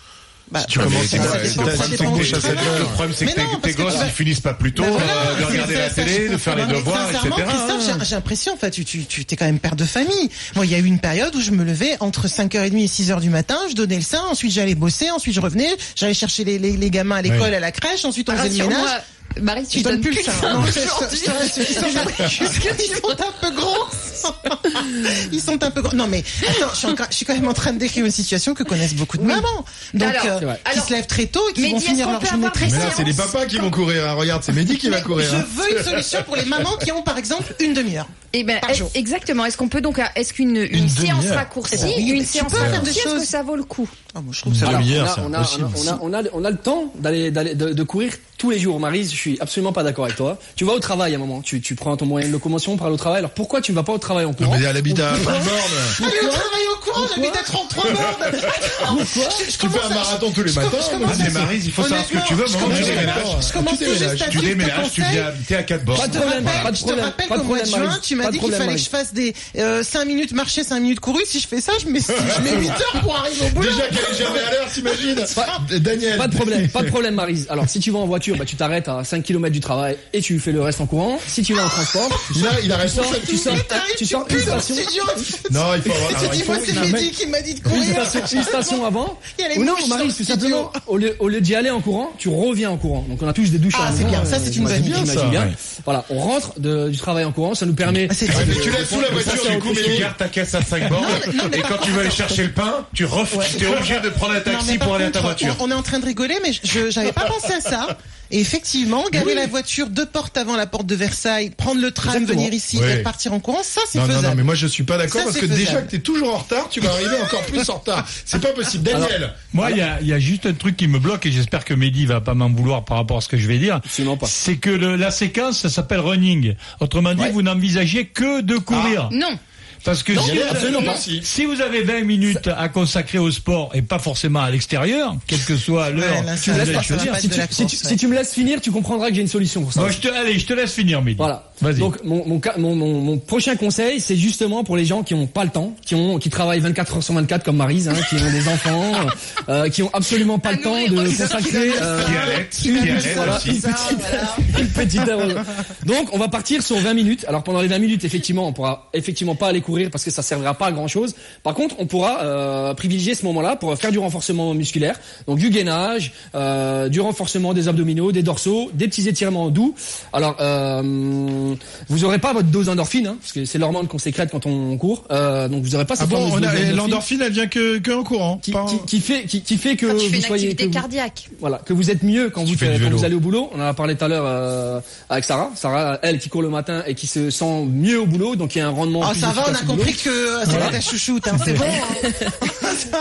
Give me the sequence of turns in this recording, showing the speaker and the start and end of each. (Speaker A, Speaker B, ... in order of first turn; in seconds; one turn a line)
Speaker A: 0.5-4.2
Speaker B: 0.6-3.0
Speaker C: 0.8-8.0
Speaker A: 4.7-18.9
Speaker D: 18.3-23.2
Speaker A: 19.7-33.3
Speaker D: 29.1-29.5
Speaker D: 30.0-30.9
Speaker D: 31.6-33.6
Speaker B: 32.6-35.8
Speaker A: 34.9-38.9
Speaker D: 38.3-43.9
Speaker B: 40.7-42.9
Speaker A: 41.7-43.3
Speaker A: 44.1-44.9
Speaker B: 44.5-46.0
Speaker E: 44.6-56.4
Speaker B: 54.4-56.0
Speaker A: 56.0-65.4
Speaker E: 57.0-57.5
Speaker E: 58.8-59.5
Speaker B: 59.5-61.5
Speaker C: 61.0-63.3
Speaker B: 62.6-64.4
Speaker C: 64.3-66.7
Speaker A: 65.9-74.5
Speaker E: 65.9-68.9
Speaker B: 72.2-72.8
Speaker B: 73.5-76.9
Speaker E: 75.3-75.6
Speaker E: 76.1-84.9
Speaker B: 82.3-83.6
Speaker A: 83.0-90.8
Speaker B: 85.5-87.1
Speaker E: 87.7-100.1
Speaker B: 87.7-88.1
Speaker A: 93.7-95.0
Speaker B: 94.3-95.5
Speaker A: 98.1-99.1
Speaker B: 98.2-100.1
Speaker C: 99.1-105.6
Speaker A: 100.9-102.4
Speaker A: 103.3-114.4
Speaker B: 109.1-109.5
Speaker E: 112.0-112.5
Speaker B: 112.7-113.1
Speaker B: 113.9-119.5
Speaker A: 115.1-115.9
Speaker E: 118.9-119.8
Speaker F: 119.5-129.1
Speaker E: 123.9-124.3
Speaker B: 128.7-129.0
Speaker D: 129.1-129.4
Speaker F: 129.8-137.1
Speaker B: 130.1-131.3
Speaker E: 130.2-131.0
Speaker A: 135.9-138.0
Speaker E: 136.4-140.0
Speaker F: 139.8-141.9
Speaker E: 141.2-177.0
Speaker D: 150.4-151.8
Speaker A: 151.1-154.4
Speaker C: 152.0-153.7
Speaker B: 176.0-178.9
Speaker E: 178.4-190.8
Speaker D: 179.8-181.3
Speaker B: 182.4-183.1
Speaker A: 189.0-192.9
Speaker E: 191.4-192.4